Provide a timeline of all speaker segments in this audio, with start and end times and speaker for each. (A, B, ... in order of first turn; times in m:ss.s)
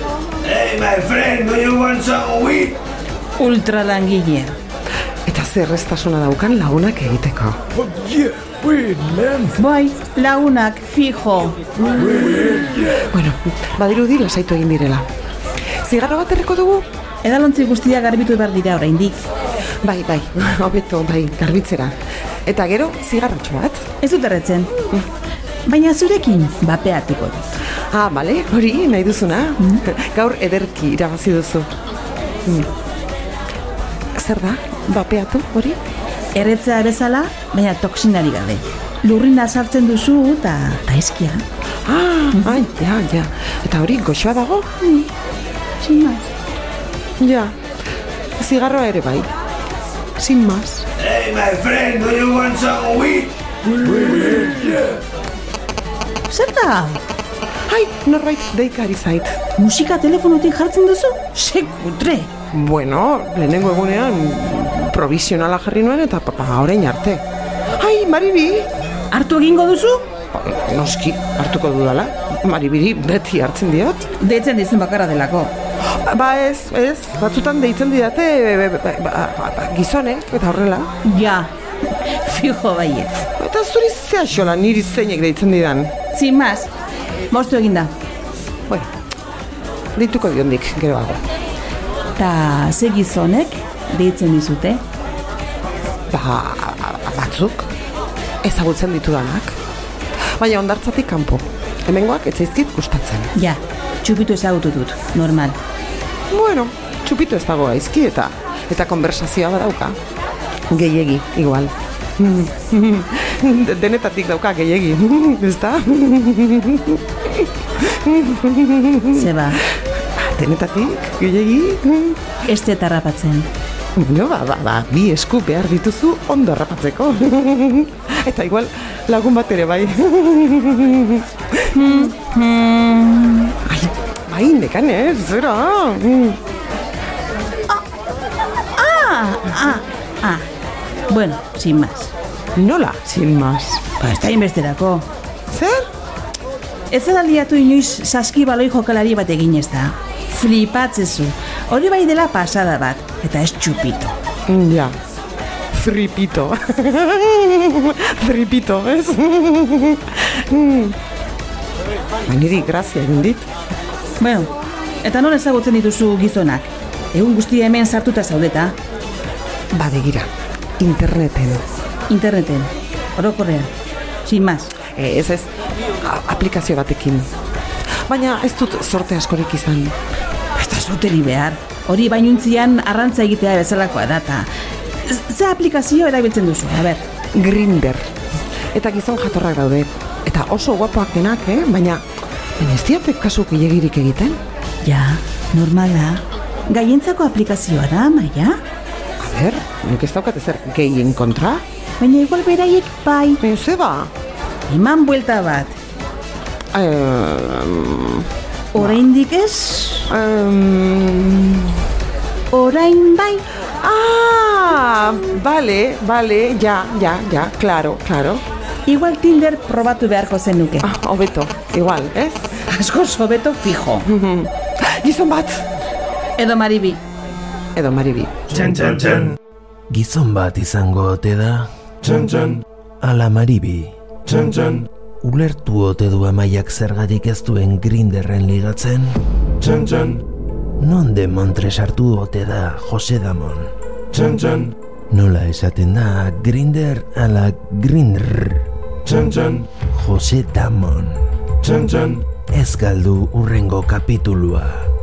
0:00.4-0:02.8 A
0:03.4-0:04.6 B
0:05.2-0:07.6 C
0:09.5-0:11.6 B
0:12.1-0:15.1 C
0:15.8-0:16.9 C
0:17.2-0:19.2 B
0:19.8-0:23.8 C
0:24.0-0:24.7 B
0:25.6-0:27.4 B
0:27.9-0:31.7 C
0:32.4-0:32.7 C
0:34.2-0:35.8 C
0:36.3-0:41.4 B
0:41.8-0:44.7 C
0:42.3-0:42.7 B
0:44.8-0:45.1 B
0:45.8-0:46.2 B
0:47.2-0:47.6 C
0:48.4-0:49.3 C
0:50.2-0:50.9 C
0:51.0-0:54.3 A
0:54.1-0:54.7 C
0:56.3-0:57.0 B
0:57.7-0:59.4 C
0:59.6-1:02.3 B
1:02.5-1:07.2 C
1:07.8-1:08.7 C
1:09.1-1:10.0 B
1:10.3-1:14.1 C
1:14.2-1:15.5 B
1:15.8-1:20.9 C
1:21.0-1:23.2 B
1:23.4-1:25.9 C
1:26.1-1:26.7 B
1:27.3-1:27.9 B
1:29.9-1:31.2 C
1:32.2-1:34.8 B
1:36.1-1:37.7 C
1:38.4-1:39.6 C
1:40.4-1:43.3 C
1:43.3-1:45.6 B
1:46.3-1:50.0 C
1:50.7-1:59.3 C
1:59.1-1:59.6 B
2:00.0-2:02.2 C
2:02.4-2:03.5 B
2:04.0-2:12.1 C
2:11.7-2:13.5 B
2:13.6-2:16.4 C
2:18.7-2:20.4 B
2:21.1-2:22.1 B
2:22.5-2:23.8 C
2:24.0-2:25.1 B
2:25.5-2:25.9 C
2:26.9-2:34.1 B
2:34.5-2:35.0 C
2:35.7-2:41.0 C
2:42.2-2:43.5 C
2:44.2-2:48.8 B
2:49.7-2:51.6 C
2:52.1-2:53.7 B
2:54.2-2:54.7 B
2:54.9-2:57.3 C
2:58.0-3:00.0 C
3:00.5-3:04.5 B
3:05.0-3:07.0 B
3:07.3-3:08.1 C
3:08.7-3:12.0 C
3:12.6-3:14.4 C
3:14.8-3:18.6 B
3:19.2-3:21.6 C
3:22.0-3:23.4 B
3:23.4-3:24.1 C
3:24.7-3:25.8 B
3:26.7-3:29.0 C
3:28.7-3:30.1 B
3:30.1-3:31.8 C
3:32.5-3:33.5 B
3:33.8-3:38.4 C
3:38.8-3:40.9 B
3:40.8-3:42.6 C
3:42.7-3:44.1 B
3:44.0-3:45.6 C
3:46.4-3:47.0 B
3:47.7-3:48.6 C
3:48.6-3:49.3 A
3:49.9-3:51.7 D
3:53.0-3:54.4 D
3:55.2-3:59.2 D
4:00.8-4:03.7 D
4:05.1-4:08.6 D
4:09.8-4:11.2 D
4:12.5-4:14.9 D